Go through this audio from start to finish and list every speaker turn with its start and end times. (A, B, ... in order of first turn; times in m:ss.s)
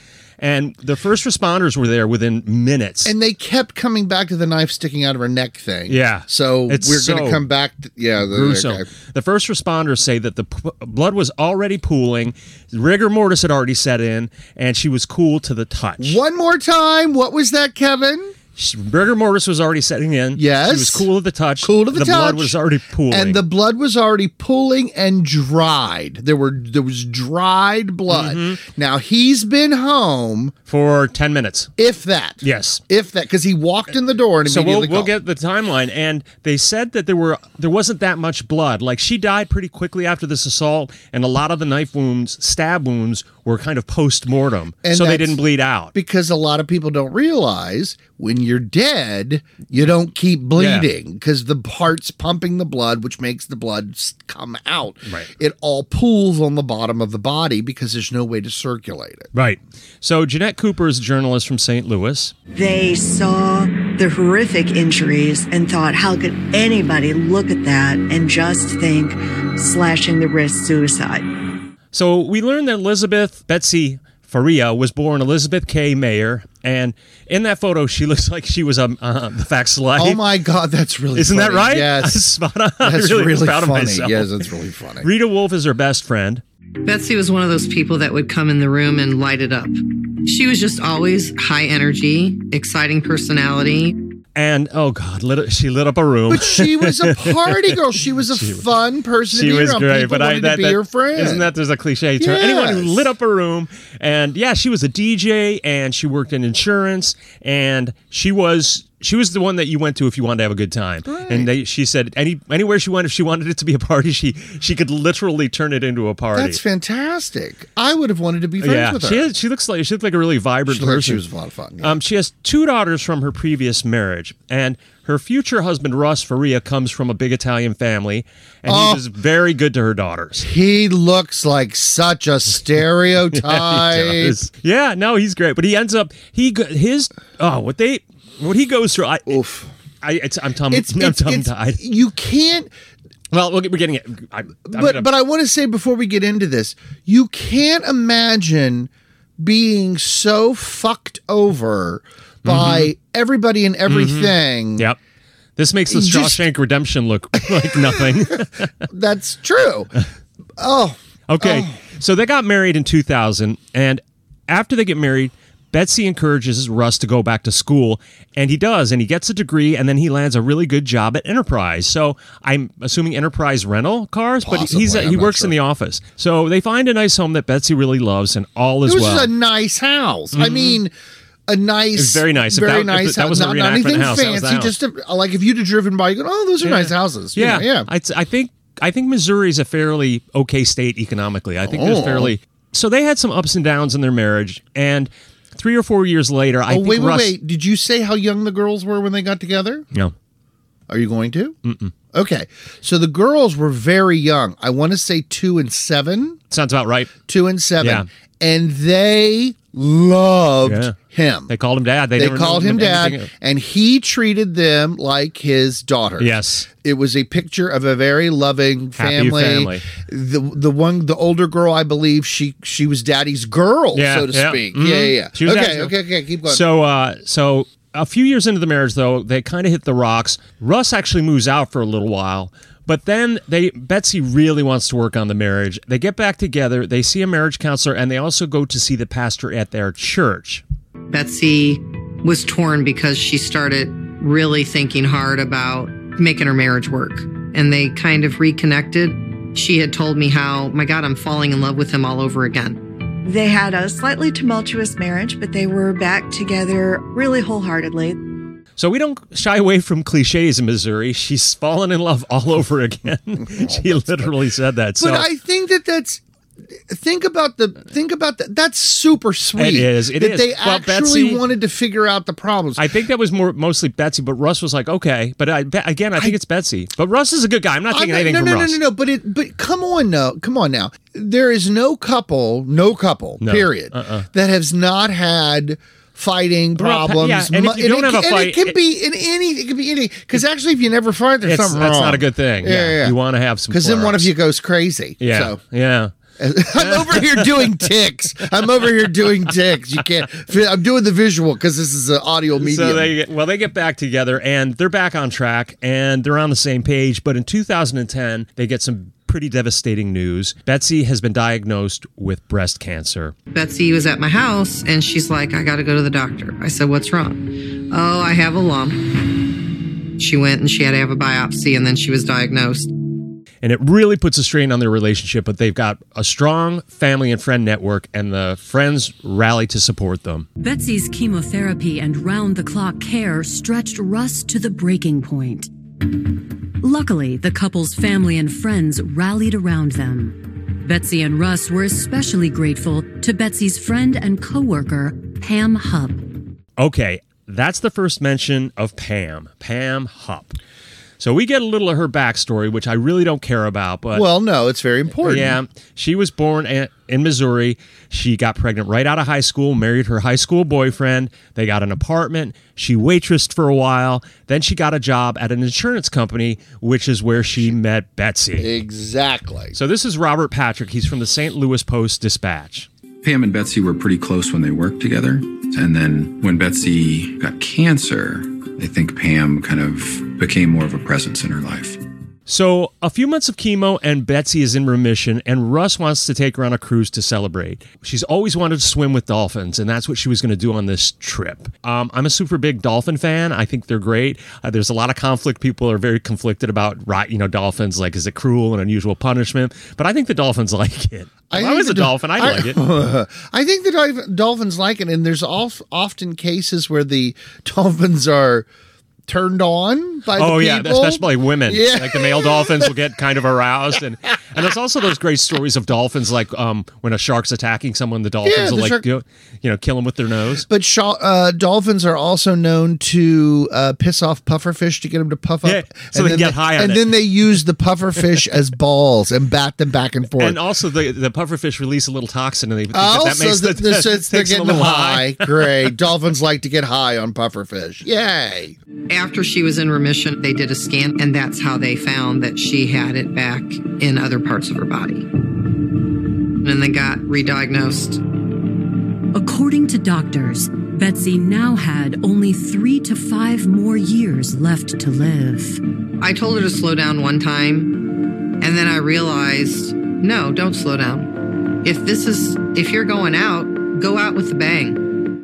0:00.4-0:03.1 A
0:03.0-0:08.9 B
0:05.9-0:07.4 A
0:08.3-0:16.2 A
0:16.0-0:18.3 B
0:18.6-0:23.4 A
0:20.4-0:21.1 B
0:21.6-0:30.5 B
0:28.1-0:28.6 A
0:30.7-0:31.7 A
0:31.8-0:35.1 B
0:32.4-0:32.8 A
0:34.4-0:45.9 A
0:44.8-0:45.4 B
0:45.9-0:59.3 B
0:50.6-0:50.9 A
0:59.3-1:02.3 A
1:02.5-1:11.3 C
1:11.9-1:20.2 A
1:20.0-1:22.2 B
1:21.2-1:24.3 A
1:22.8-1:25.1 B
1:25.0-1:26.4 A
1:26.8-1:34.0 D
1:34.4-1:37.8 A
1:36.3-1:41.5 B
1:38.3-1:38.6 A
1:39.3-1:56.6 A
1:42.2-1:43.1 B
1:51.1-1:51.5 B
1:56.3-1:59.3 B
1:58.6-2:01.2 A
2:00.7-2:02.0 B
2:01.8-2:10.5 A
2:08.6-2:09.0 B
2:10.4-2:14.4 B
2:13.3-2:19.4 A
2:19.3-2:19.7 B
2:20.0-2:21.8 A
2:20.7-2:22.7 B
2:23.3-2:25.1 A
2:24.7-2:34.9 B
2:32.4-2:32.9 A
2:33.9-2:35.0 A
2:35.6-2:38.8 A
2:35.9-2:36.4 B
2:37.4-2:39.9 B
2:40.6-2:41.8 B
2:41.3-2:59.3 A
2:54.4-2:55.6 B
2:58.8-3:00.9 B
3:00.3-3:00.8 A
3:01.5-3:07.9 B
3:02.0-3:04.7 A
3:06.6-3:17.3 A
3:11.7-3:12.4 B
3:16.7-3:19.9 B
3:20.9-3:21.6 B
3:21.6-3:21.9 A
3:22.1-3:26.4 B
3:26.5-3:27.1 A
3:27.3-3:31.5 B
3:27.8-3:28.1 A
3:30.6-3:31.0 A
3:31.5-3:33.3 A
3:32.2-3:46.6 B
3:36.2-3:36.7 A
3:39.0-3:39.8 A
3:43.9-3:45.9 A
3:46.5-4:00.6 A
4:01.1-4:12.8 D
4:13.2-4:18.2 C
4:18.8-4:25.2 A
4:23.5-4:24.3 B
4:25.0-4:26.2 B
4:26.9-4:32.9 B
4:29.6-4:31.4 A
4:32.8-4:38.8 A
4:37.9-4:53.2 B
4:43.4-4:44.3 A
4:46.8-4:48.8 A
4:51.4-4:54.3 A
4:53.7-4:55.6 B
4:55.2-4:56.1 A
4:56.4-5:03.1 B
4:56.8-4:57.8 A
4:58.8-4:59.1 A
5:02.6-5:13.4 A
5:13.5-5:19.1 D
5:20.2-5:22.9 D
5:23.6-5:30.5 A
5:30.6-5:35.7 E
5:36.8-5:46.3 E
5:46.8-5:50.6 A
5:51.2-5:54.3 A
5:54.1-5:55.6 B
5:55.2-6:08.7 A
6:08.6-6:09.8 B
6:09.7-6:12.9 A
6:13.2-6:22.0 F
6:22.5-6:42.8 A
6:41.5-6:48.7 B
6:49.3-6:53.0 B
6:50.4-7:00.6 A
6:58.4-6:59.0 B
7:00.6-7:10.6 B
7:05.6-7:07.1 A
7:10.4-7:15.8 A
7:12.9-7:18.8 B
7:19.1-7:25.3 D
7:26.6-7:28.2 D
7:29.3-7:35.8 E
7:36.2-7:38.0 D
7:38.6-7:41.3 D
7:41.8-7:45.0 D